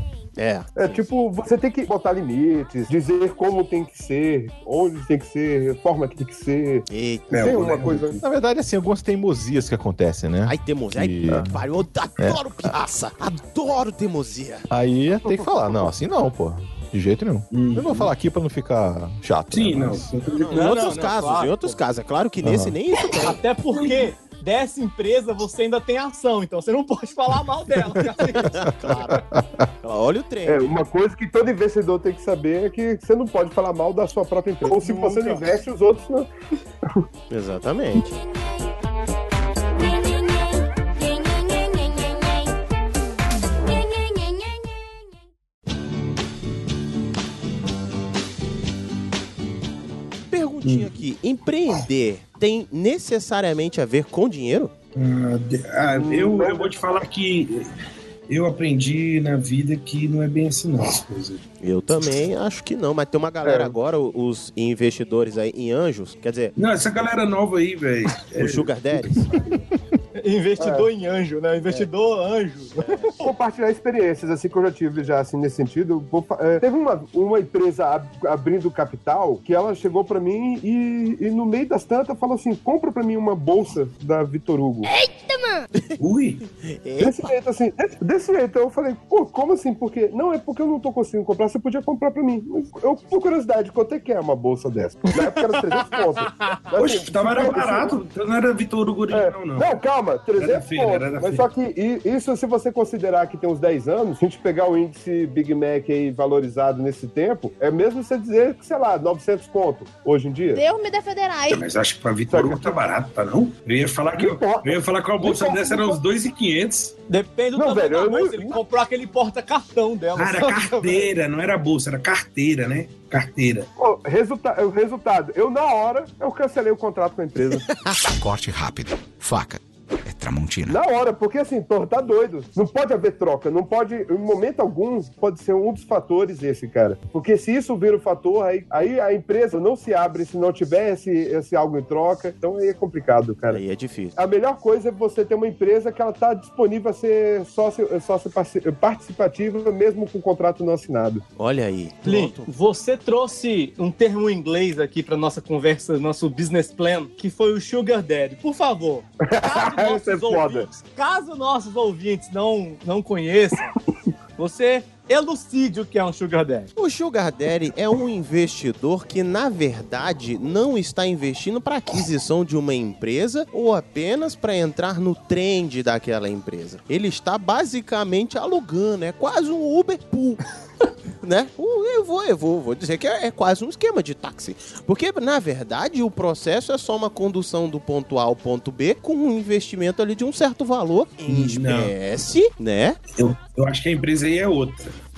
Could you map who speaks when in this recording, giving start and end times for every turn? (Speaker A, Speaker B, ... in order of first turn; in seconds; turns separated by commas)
Speaker A: 0.4-1.0, Speaker B: 0.8-8.2, Speaker A: 6.9-7.6, Speaker C: 7.3-8.2, Speaker D: 8.2-11.6, Speaker A: 10.4-14.7, Speaker D: 12.2-12.7, Speaker D: 14.7-20.1, Speaker B: 15.2-15.8, Speaker C: 17.5-18.1, Speaker C: 19.5-20.6, Speaker A: 20.3-23.4, Speaker E: 20.5-21.8, Speaker D: 22.4-22.8, Speaker E: 23.2-28.6, Speaker A: 28.4-29.2, Speaker D: 28.8-29.6, Speaker A: 29.8-30.8, Speaker B: 30.4-36.3, Speaker E: 34.6-35.5, Speaker A: 37.3-38.0, Speaker F: 38.0-38.7, Speaker F: 39.7-42.6, Speaker F: 43.6-45.2, Speaker A: 50.3-54.7, Speaker C: 50.6-50.9, Speaker C: 55.0-57.7, Speaker B: 55.9-56.7, Speaker C: 58.3-61.4, Speaker A: 61.6-66.5, Speaker B: 63.4-63.8, Speaker C: 66.6-69.4, Speaker A: 68.4-69.3, Speaker E: 70.2-73.3, Speaker B: 70.6-70.9, Speaker A: 72.8-73.1, Speaker B: 73.2-84.9, Speaker F: 84.9-85.6, Speaker C: 86.0-86.4, Speaker A: 86.5-87.2, Speaker B: 87.0-98.0, Speaker E: 95.1-96.5, Speaker C: 96.7-99.7, Speaker B: 99.1-110.6, Speaker C: 100.4-101.5, Speaker F: 110.5-111.6, Speaker C: 111.5-116.9, Speaker B: 112.3-112.8, Speaker B: 114.1-116.0, Speaker E: 117.1-121.1, Speaker B: 117.5-118.6, Speaker C: 120.1-123.7, Speaker B: 123.8-127.7, Speaker A: 127.7-128.0, Speaker G: 128.2-130.8, Speaker B: 130.7-143.6, Speaker A: 143.5-144.2, Speaker B: 144.2-151.2, Speaker A: 151.4-152.5, Speaker E: 152.0-163.7, Speaker B: 159.2-160.7, Speaker E: 164.4-166.7, Speaker A: 166.8-180.4, Speaker A: 181.2-193.0, Speaker C: 191.3-191.9, Speaker C: 193.1-194.9